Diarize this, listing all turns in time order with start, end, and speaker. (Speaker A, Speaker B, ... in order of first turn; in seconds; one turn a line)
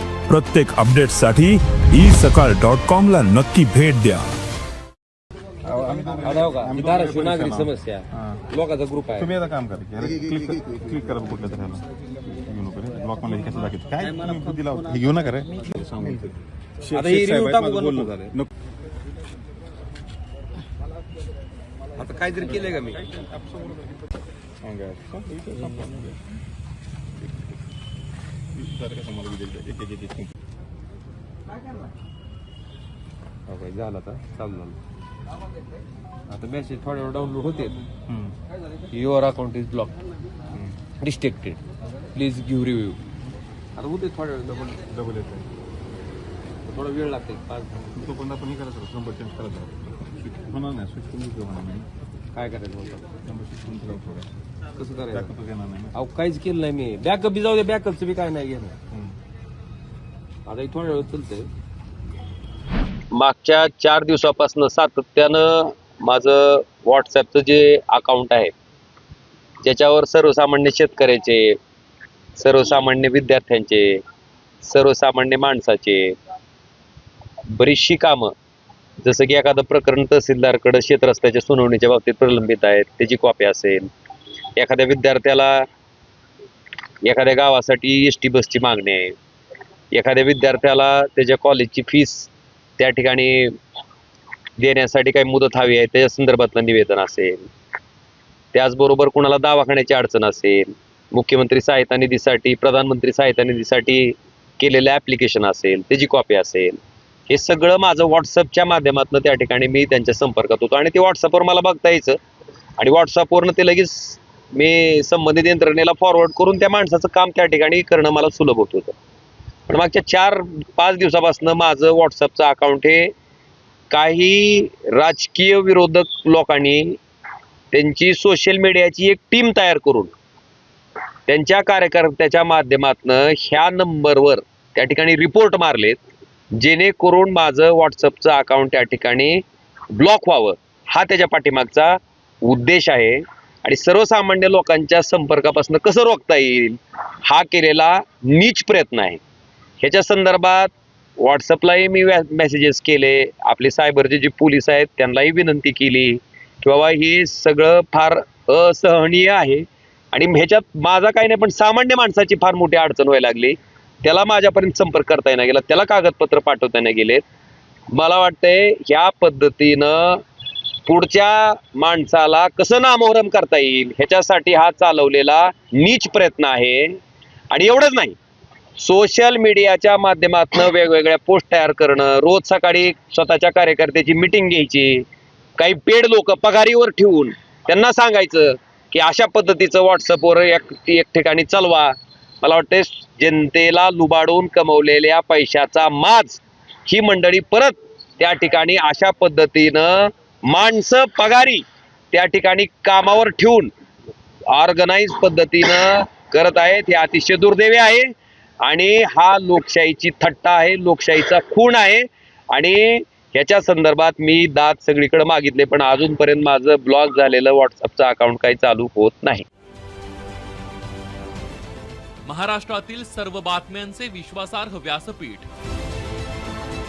Speaker A: 0.3-4.3
Speaker B: 5.7-8.5
Speaker C: 6.2-9.3
Speaker B: 9.2-11.8
Speaker B: 12.4-18.5
Speaker C: 16.9-18.3
Speaker C: 22.0-23.1
Speaker B: 24.6-26.2
Speaker B: 28.6-30.3
Speaker C: 33.5-34.8
Speaker C: 36.3-37.8
Speaker B: 38.1-38.3
Speaker C: 38.9-40.0
Speaker C: 41.0-41.6
Speaker C: 42.1-43.0
Speaker C: 43.8-44.8
Speaker B: 44.9-45.5
Speaker C: 46.6-47.9
Speaker B: 47.9-51.9
Speaker C: 52.3-53.1
Speaker B: 53.2-54.3
Speaker C: 54.8-55.3
Speaker B: 55.1-56.0
Speaker C: 56.0-58.8
Speaker C: 60.5-61.5
Speaker D: 63.1-68.5
Speaker D: 69.6-71.6
Speaker D: 72.4-74.0
Speaker D: 74.6-76.2
Speaker D: 77.5-78.3
Speaker D: 79.0-83.9
Speaker D: 84.6-85.7
Speaker D: 87.0-89.2
Speaker D: 89.9-93.6
Speaker D: 94.6-97.5
Speaker D: 98.5-106.8
Speaker D: 107.3-112.2
Speaker D: 112.8-119.0
Speaker D: 119.7-123.1
Speaker D: 123.9-127.0
Speaker D: 127.7-130.1
Speaker D: 131.3-136.0
Speaker D: 136.6-149.2
Speaker D: 149.8-167.2
Speaker D: 167.9-170.2
Speaker D: 170.8-177.0
Speaker D: 177.5-178.2
Speaker D: 178.8-185.1
Speaker D: 185.6-203.7
Speaker D: 204.5-208.1
Speaker D: 208.6-219.5
Speaker E: 222.2-225.5